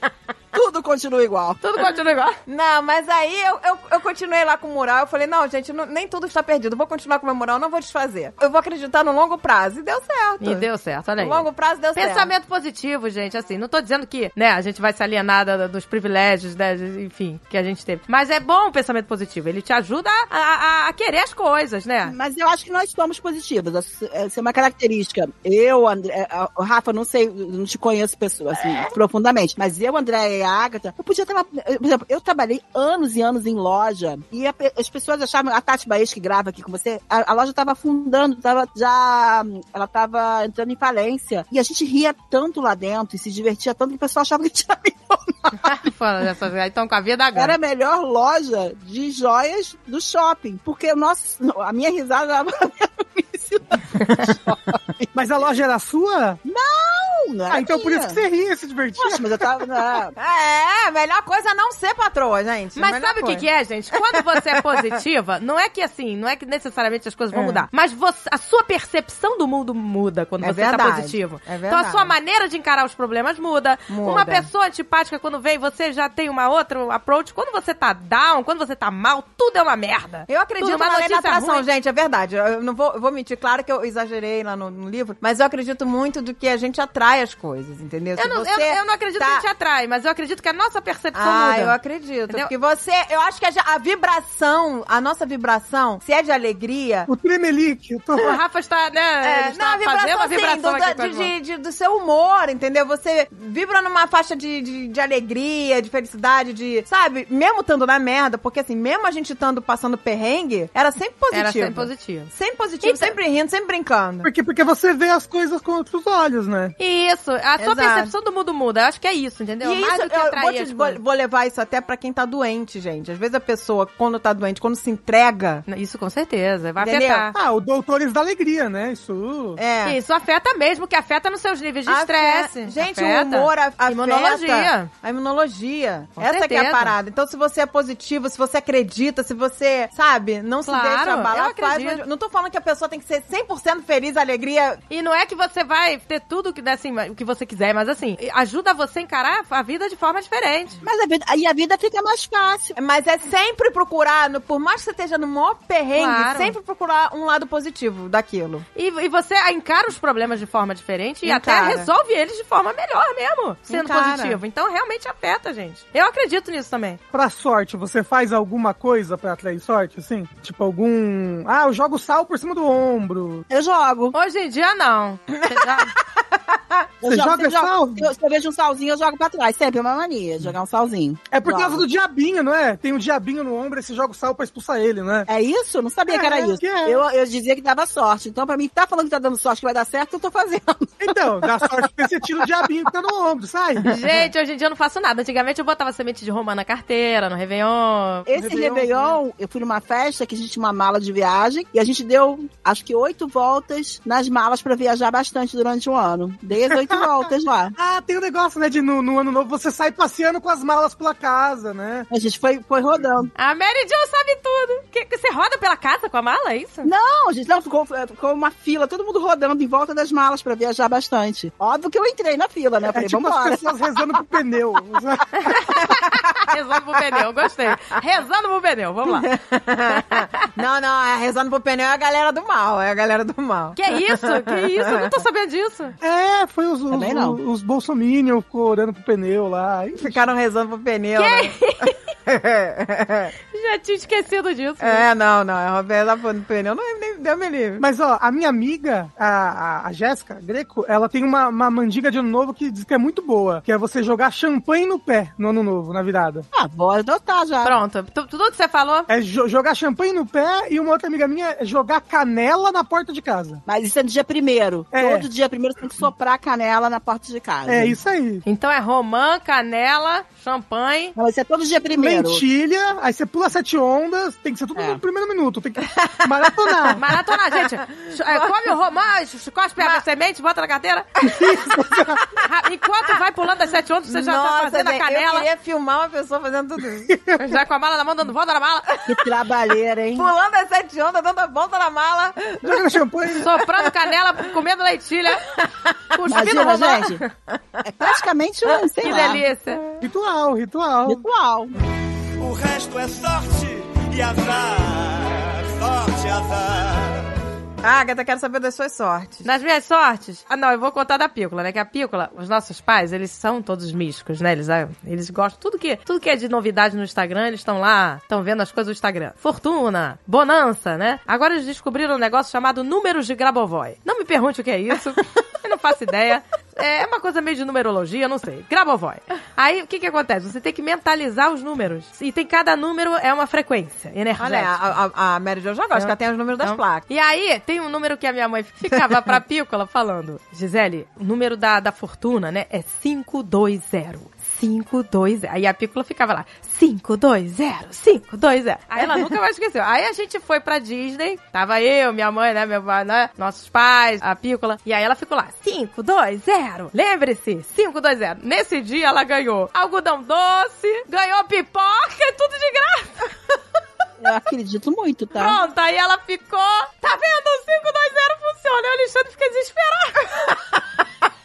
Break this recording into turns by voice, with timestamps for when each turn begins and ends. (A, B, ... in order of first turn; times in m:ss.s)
0:00.5-0:01.6 A
0:01.6-0:02.4 B
0:02.5-0:10.6 C
0:10.4-0:22.1 B
0:11.2-0:12.3 C
0:22.0-0:45.7 A
0:45.6-0:47.6 B
0:47.3-0:55.1 A
0:55.1-0:56.4 D
0:56.4-0:58.2 A
0:57.5-0:59.3 D
0:59.0-1:00.1 A
1:00.2-1:03.4 C
1:02.8-1:21.6 B
1:04.0-1:04.8 C
1:07.3-1:07.6 C
1:10.4-1:12.1 C
1:13.9-1:14.5 C
1:20.3-1:29.4 C
1:28.2-1:31.8 B
1:31.1-1:37.1 C
1:37.1-1:38.3 D
1:38.2-1:41.3 B
1:39.2-1:54.3 C
1:51.3-1:52.3 B
1:52.8-1:53.1 B
1:54.2-1:56.7 D
1:56.8-2:01.0 B
1:57.6-1:58.1 C
1:59.6-2:05.6 C
2:05.7-2:07.4 B
2:06.8-2:07.3 C
2:07.3-2:09.6 D
2:09.6-2:10.0 C
2:09.8-2:14.9 B
2:11.9-2:24.8 C
2:16.2-2:16.9 B
2:20.6-2:22.0 B
2:24.9-2:30.8 B
2:30.8-2:32.7 A
2:32.8-2:38.6 C
2:35.9-2:36.5 B
2:38.7-2:47.0 B
2:41.2-2:41.9 C
2:43.7-2:44.4 C
2:47.1-2:53.4 D
2:53.5-2:54.1 A
2:54.1-2:55.9 B
2:55.4-2:56.9 C
2:57.0-3:01.8 A
2:57.0-2:58.1 D
3:01.3-3:05.3 D
3:05.3-3:12.4 A
3:06.1-3:07.0 D
3:11.0-3:13.9 D
3:13.8-3:18.3 B
3:18.3-3:27.7 A
3:18.3-3:19.2 D
3:26.7-3:27.0 D
3:27.8-3:32.1 D
3:32.1-3:33.3 A
3:33.4-3:36.9 B
3:36.8-3:44.2 A
3:42.9-3:45.5 D
3:45.5-3:49.3 B
3:49.0-3:55.1 C
3:50.0-3:50.4 B
3:53.8-3:56.0 B
3:56.0-4:00.2 D
3:56.9-3:57.4 A
4:00.0-4:03.3 C
4:01.2-4:02.0 B
4:03.5-4:05.0 B
4:04.8-4:07.8 C
4:07.8-4:16.4 D
4:16.5-4:17.8 A
4:17.6-4:19.1 B
4:19.1-4:23.6 D
4:23.6-4:28.0 A
4:24.9-4:25.3 D
4:27.7-4:28.4 D
4:28.4-4:31.1 B
4:31.1-4:32.4 A
4:31.9-4:37.0 D
4:34.7-4:35.0 A
4:35.9-4:37.0 C
4:37.0-4:41.2 B
4:37.6-4:38.7 C
4:41.2-4:42.2 D
4:41.2-4:42.0 C
4:42.3-4:45.4 B
4:44.1-4:47.1 C
4:47.1-4:47.4 D
4:47.4-4:48.9 B
4:49.0-4:50.3 A
4:50.1-4:54.1 C
4:52.6-4:53.5 D
4:53.4-4:55.5 B
4:56.1-4:57.3 B
4:56.3-4:57.2 A
4:57.8-4:59.4 A
4:59.0-5:00.0 B
5:00.0-5:01.2 D
5:01.0-5:01.7 A
5:02.4-5:07.3 E
5:07.8-5:09.5 C
5:09.4-5:34.8 B
5:34.4-5:37.0 C
5:35.9-6:03.3 B
6:04.2-6:05.6 A
6:05.3-6:10.6 B